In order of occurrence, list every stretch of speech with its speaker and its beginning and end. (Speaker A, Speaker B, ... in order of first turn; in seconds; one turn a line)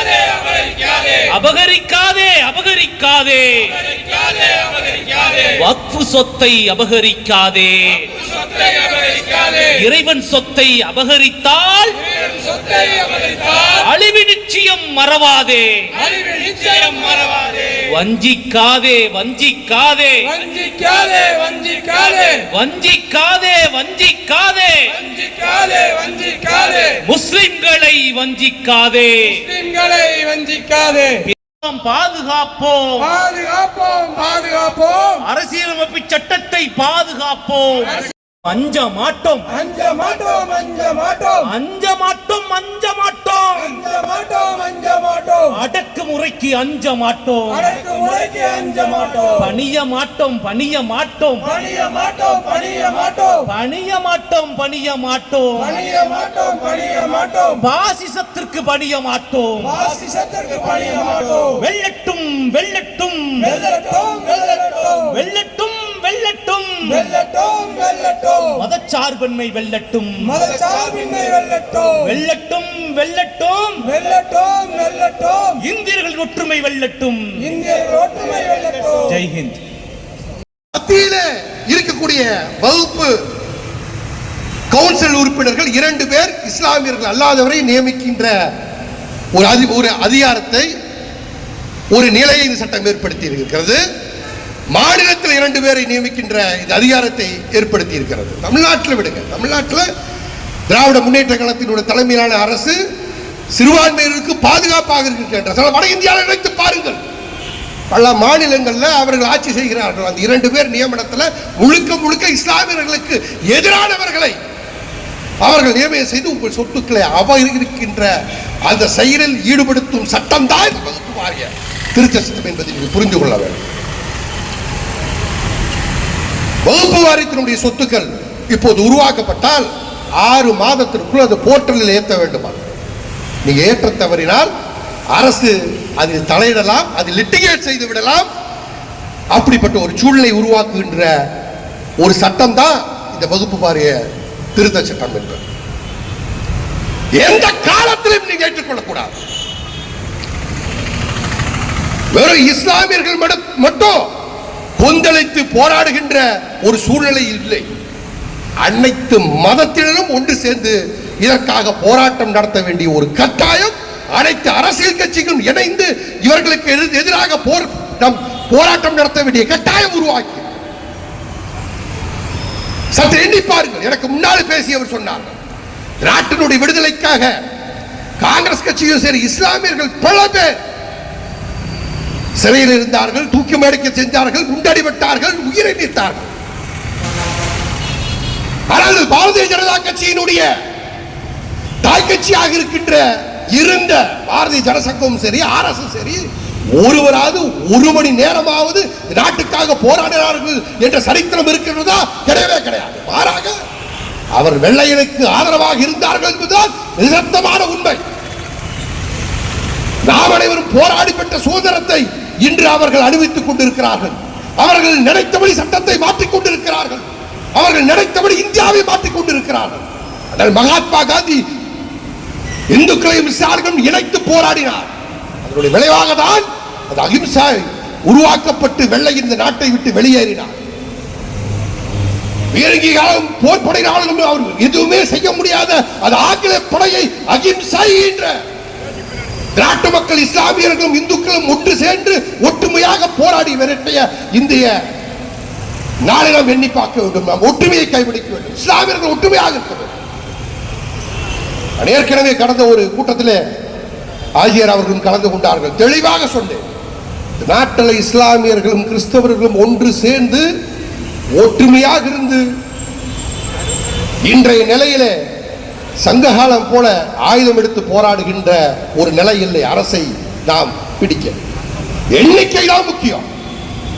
Speaker A: 0.3-3.9
Speaker A: 4.9-16.2
Speaker B: 16.2-17.4
Speaker A: 17.5-20.5
Speaker B: 20.5-22.2
Speaker A: 22.2-25.1
Speaker B: 25.1-26.7
Speaker A: 26.7-29.6
Speaker B: 29.6-31.1
Speaker A: 31.1-33.2
Speaker B: 33.2-35.0
Speaker A: 35.0-39.7
Speaker B: 39.7-41.3
Speaker A: 41.3-43.9
Speaker B: 43.9-45.3
Speaker A: 45.4-47.8
Speaker B: 47.8-49.1
Speaker A: 49.1-51.6
Speaker B: 51.6-53.3
Speaker A: 53.3-55.9
Speaker B: 55.9-57.3
Speaker A: 57.4-59.9
Speaker B: 59.9-61.4
Speaker A: 61.4-67.2
Speaker B: 67.3-68.2
Speaker A: 68.3-70.6
Speaker B: 70.5-71.7
Speaker A: 71.7-74.0
Speaker B: 74.0-75.4
Speaker A: 75.5-77.7
Speaker B: 77.6-79.0
Speaker A: 79.0-79.6
Speaker C: 80.7-83.2
Speaker C: 84.7-88.3
Speaker C: 89.3-90.7
Speaker C: 91.9-93.8
Speaker C: 94.7-99.9
Speaker C: 100.7-102.8
Speaker C: 103.5-107.0
Speaker C: 107.9-114.3
Speaker C: 115.4-118.1
Speaker C: 118.7-123.7
Speaker C: 126.6-129.7
Speaker C: 130.2-132.7
Speaker C: 133.4-134.5
Speaker C: 135.1-138.3
Speaker C: 139.3-141.1
Speaker C: 142.0-144.0
Speaker C: 144.6-145.4
Speaker C: 147.2-149.2
Speaker C: 152.1-154.0
Speaker C: 154.8-157.7
Speaker C: 158.6-170.5
Speaker C: 172.9-175.3
Speaker C: 176.0-177.4
Speaker C: 178.2-180.5
Speaker C: 182.4-186.3
Speaker C: 188.7-190.5
Speaker C: 191.8-196.2
Speaker C: 196.8-203.6
Speaker C: 204.3-208.0
Speaker C: 210.1-221.4
Speaker C: 222.7-224.9
Speaker C: 225.4-230.5
Speaker C: 232.5-238.4
Speaker C: 239.6-244.8
Speaker C: 246.1-249.9
Speaker C: 251.8-253.4
Speaker C: 254.4-256.6
Speaker C: 257.4-260.4
Speaker C: 261.4-262.4
Speaker C: 264.2-265.1
Speaker C: 266.0-271.4
Speaker C: 272.1-273.2